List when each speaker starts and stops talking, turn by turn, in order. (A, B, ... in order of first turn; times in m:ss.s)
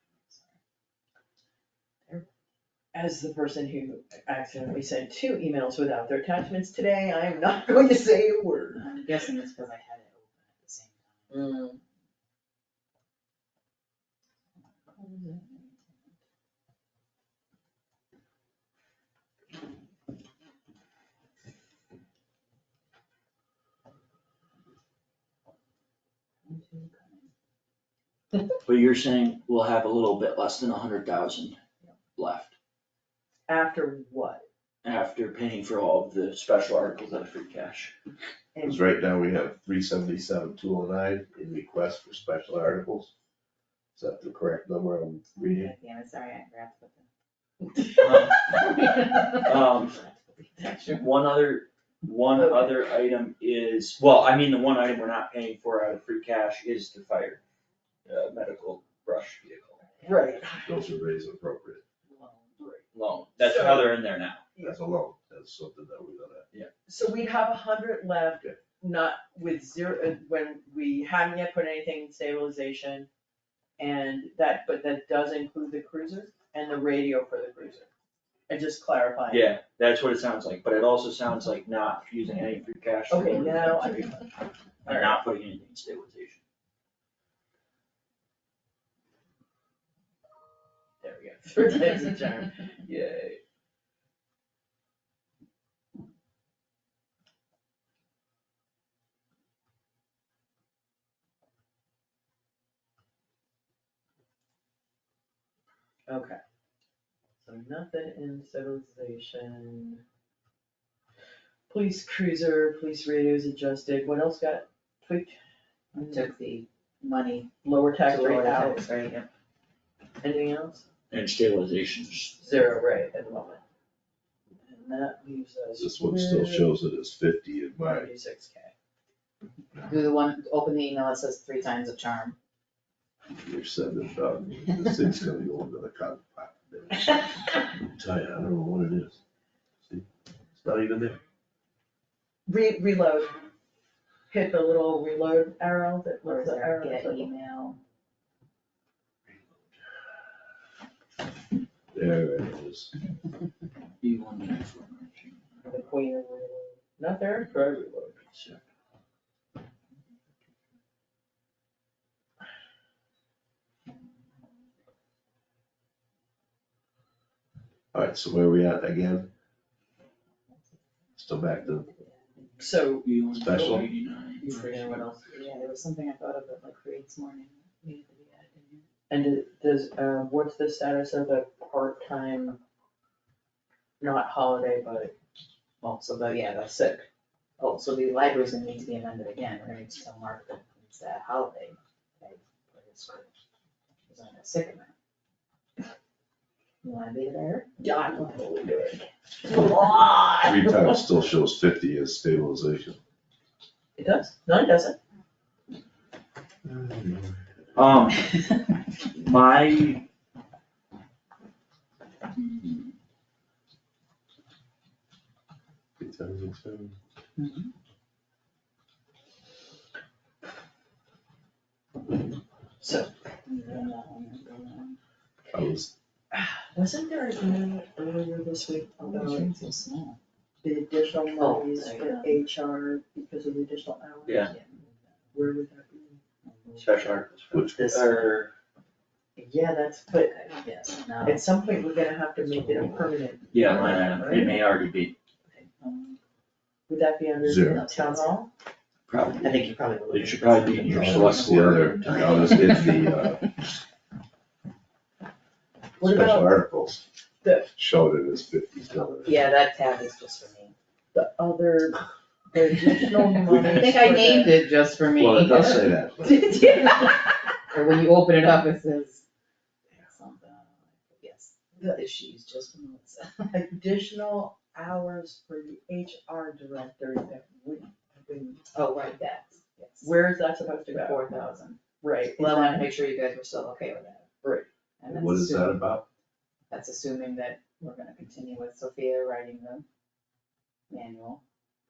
0:02.9-0:08.9 A
0:08.7-0:11.5 B
0:11.3-0:11.8 A
0:15.0-0:15.4 A
0:15.2-0:15.5 B
0:26.5-0:27.0 B
0:28.6-0:31.6 C
0:32.2-0:32.5 C
0:33.5-0:34.4 A
0:34.8-0:37.9 C
0:38.5-0:38.8 A
0:38.6-0:43.1 D
0:44.0-0:45.7 D
0:45.4-0:47.1 B
0:48.0-0:48.6 C
0:49.0-0:49.3 B
0:49.3-0:50.0 C
0:50.9-0:57.4 C
0:52.4-0:52.8 A
0:58.1-0:59.8 C
1:00.0-1:00.3 B
1:00.0-1:00.8 A
1:00.6-1:01.8 D
1:02.1-1:02.5 B
1:02.6-1:02.8 A
1:02.9-1:04.4 C
1:03.4-1:04.0 A
1:04.6-1:06.5 D
1:06.9-1:13.1 A
1:13.8-1:17.9 A
1:18.5-1:19.6 A
1:19.3-1:24.2 C
1:23.1-1:24.2 A
1:24.8-1:25.2 A
1:24.8-1:26.4 C
1:31.0-1:33.4 A
1:46.1-1:46.4 A
1:47.4-1:50.0 A
1:51.7-1:55.4 A
1:55.9-1:57.5 B
1:57.6-1:58.8 A
1:58.0-1:59.3 B
2:00.2-2:00.8 A
2:01.1-2:02.4 C
2:02.4-2:03.6 A
2:04.6-2:06.7 A
2:05.8-2:08.1 D
2:07.8-2:08.7 A
2:09.8-2:12.4 B
2:13.3-2:19.2 D
2:20.6-2:21.2 D
2:22.5-2:23.4 A
2:24.3-2:27.3 A
2:26.2-2:27.8 B
2:31.9-2:32.9 D
2:34.0-2:35.4 C
2:35.6-2:38.3 A
2:38.3-2:38.6 C
2:47.9-2:49.3 D
2:51.2-2:51.9 D
2:51.6-2:52.7 B
2:52.6-2:53.9 A
2:53.0-2:55.1 C
2:53.4-2:53.9 D
2:54.4-2:55.7 A
2:55.4-2:58.8 B
2:59.1-3:02.6 A
3:04.0-3:05.1 A
3:05.8-3:06.8 B
3:06.8-3:07.0 A
3:07.6-3:13.3 B
3:14.1-3:14.9 B
3:16.8-3:17.7 B
3:17.8-3:21.0 A
3:20.4-3:23.0 D
3:24.0-3:25.0 A
3:26.6-3:27.5 D
3:27.8-3:28.3 C
3:29.1-3:30.0 C
3:36.0-3:37.0 D
3:37.4-3:37.7 B
3:42.8-3:43.1 A
3:43.5-3:45.0 B
3:45.5-3:45.9 D
3:46.3-3:49.6 A
3:49.0-3:50.2 B
3:50.6-3:54.6 A
3:51.3-3:52.4 B
3:54.3-3:54.5 C
3:54.5-3:55.2 B
3:55.3-3:56.2 A
3:56.4-3:56.9 B
3:56.8-3:57.2 A
3:56.8-3:58.5 C
3:57.5-3:58.2 D
3:57.8-3:58.3 A
3:59.4-4:00.4 A
4:00.3-4:01.4 B
4:01.2-4:04.6 A
4:03.5-4:05.1 C
4:05.8-4:06.2 B
4:06.9-4:08.5 A
4:07.4-4:07.9 D
4:07.6-4:08.4 B
4:09.1-4:12.4 C
4:09.4-4:13.2 B
4:10.8-4:13.5 D
4:16.0-4:17.0 D
4:16.0-4:16.6 A
4:17.4-4:17.7 A
4:17.8-4:19.4 D
4:19.2-4:20.7 B
4:21.1-4:24.7 A
4:23.5-4:29.2 B
4:25.1-4:26.7 D
4:26.3-4:27.4 A
4:30.0-4:33.5 B
4:33.5-4:38.6 A
4:38.7-4:40.2 B
4:40.0-4:41.4 A
4:40.9-4:41.8 B
4:42.0-4:42.9 A
4:42.4-4:44.3 B
4:44.4-4:44.7 A
4:45.0-4:45.9 B
4:45.1-4:46.0 D
4:46.7-4:49.8 B
4:50.9-4:51.4 B